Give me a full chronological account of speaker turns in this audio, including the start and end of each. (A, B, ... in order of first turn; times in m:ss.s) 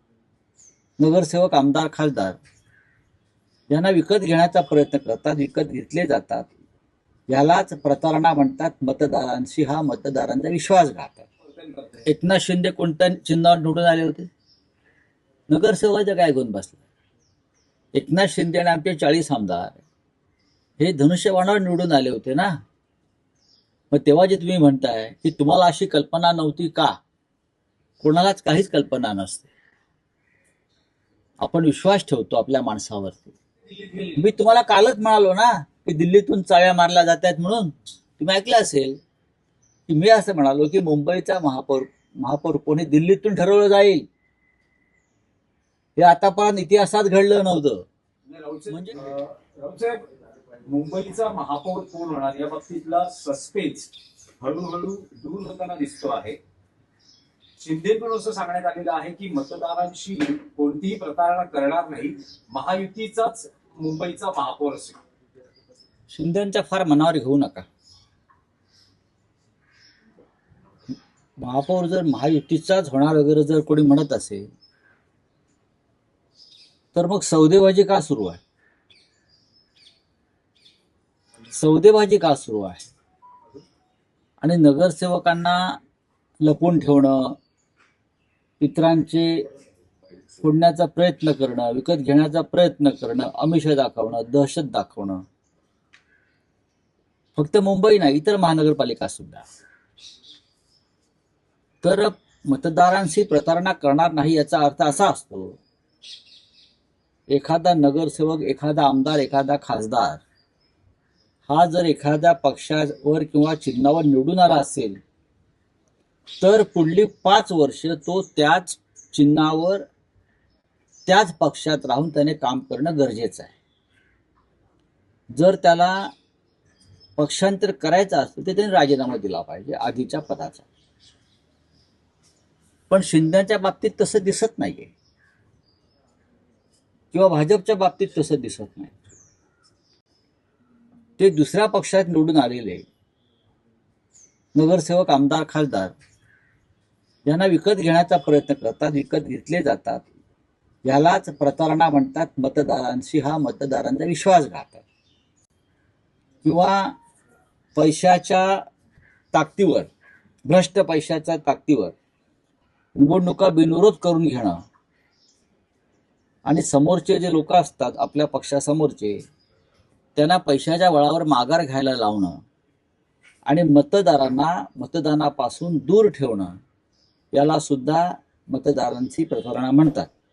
0:01.0-0:02.4 A
0:03.7-0:06.5 A
0:07.3-0:11.2 A
0:11.4-0:12.1 B
0:12.0-0:14.3 A
0:15.5-0:16.8 A
0:17.9-0:19.8 A
0:20.8-0:22.6 A
0:23.9-0:27.0 A
0:28.0-0:29.5 A
0:31.4-0:33.3 A
0:33.7-0:34.2 B
0:34.2-0:39.0 A
0:39.9-0:44.0 A
0:46.0-0:47.8 A
0:48.2-0:50.0 B
0:48.7-0:49.0 A
0:50.6-0:56.4 B
0:57.6-1:05.0 B
1:06.1-1:07.7 A
1:11.4-1:14.4 A
1:16.9-1:18.4 A
1:21.4-1:22.8 A
1:24.4-1:25.8 A
1:26.4-1:27.4 A
1:28.6-1:29.4 A
1:30.4-1:35.2 A
1:37.4-1:39.4 A
1:41.8-1:45.6 A
1:47.3-1:50.2 A
1:51.4-1:55.0 A
1:56.4-1:59.8 A
2:01.0-2:03.5 A
2:05.3-2:06.1 A
2:07.2-2:10.6 A
2:12.9-2:14.9 A
2:17.1-2:18.9 A
2:21.2-2:22.8 A
2:24.5-2:25.9 A
2:27.2-2:30.0 A
2:30.8-2:34.8 A
2:36.4-2:36.9 A
2:37.8-2:38.6 A
2:39.3-2:39.9 A
2:40.4-2:41.9 A
2:42.9-2:44.6 A
2:46.4-2:49.2 A
2:50.2-2:52.4 A
2:53.4-2:56.6 A
2:57.3-3:00.1 A